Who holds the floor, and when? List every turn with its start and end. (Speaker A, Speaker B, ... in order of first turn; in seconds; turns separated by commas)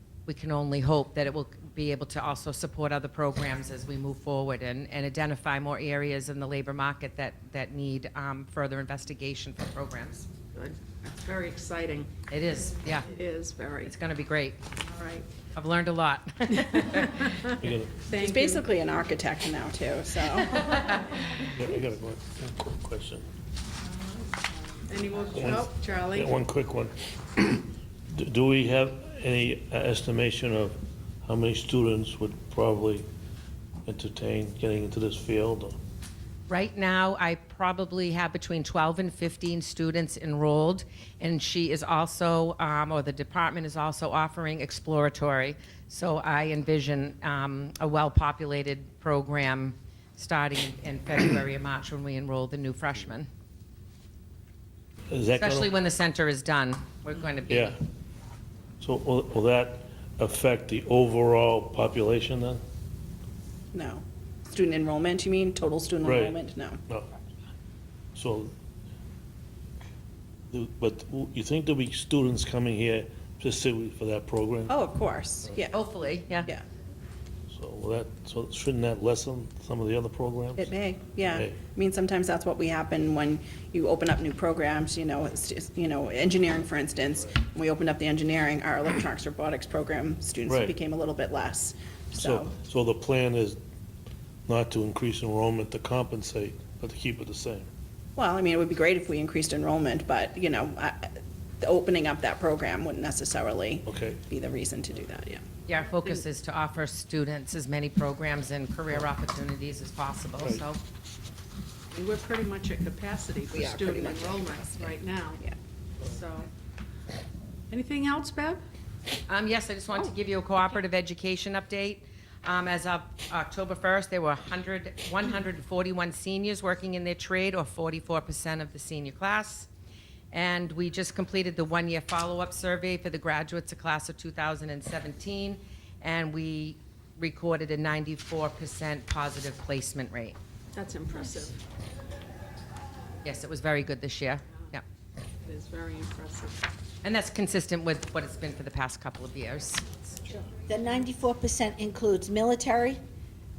Speaker A: 0.3-10.3, Speaker B: 10.5-12.1, Speaker A: 12.3-13.1, Speaker B: 13.1-14.0, Speaker A: 13.9-14.6, Speaker B: 14.8-15.3, Speaker A: 15.6-17.4, Speaker B: 16.6-17.6, Speaker C: 17.5-18.0, Speaker B: 18.1-18.7, Speaker D: 18.1-21.0, Speaker C: 21.6-23.3, Speaker B: 24.7-26.4, Speaker C: 25.3-33.1, Speaker C: 33.9-35.8, Speaker A: 36.5-53.3, Speaker C: 55.1-55.7, Speaker A: 55.4-57.8, Speaker C: 57.5-57.8, Speaker C: 58.8-62.6, Speaker D: 63.7-66.8, Speaker C: 66.0-66.4, Speaker C: 68.2-68.5, Speaker C: 70.5-74.8, Speaker D: 74.7-75.8, Speaker A: 75.7-76.5, Speaker C: 77.5-80.7, Speaker D: 80.6-92.5, Speaker C: 81.3-81.6, Speaker C: 90.5-90.8, Speaker C: 92.2-93.6, Speaker C: 94.5-97.7, Speaker D: 98.2-105.5, Speaker C: 103.9-104.2, Speaker A: 105.7-110.8, Speaker C: 110.4-110.7, Speaker B: 111.9-115.4, Speaker D: 113.5-115.5, Speaker B: 116.0-116.5, Speaker B: 117.7-118.6, Speaker A: 119.3-129.7, Speaker A: 130.3-140.4, Speaker B: 140.7-141.6, Speaker A: 143.2-144.8, Speaker B: 145.5-146.6, Speaker A: 147.0-150.2, Speaker E: 150.7-153.0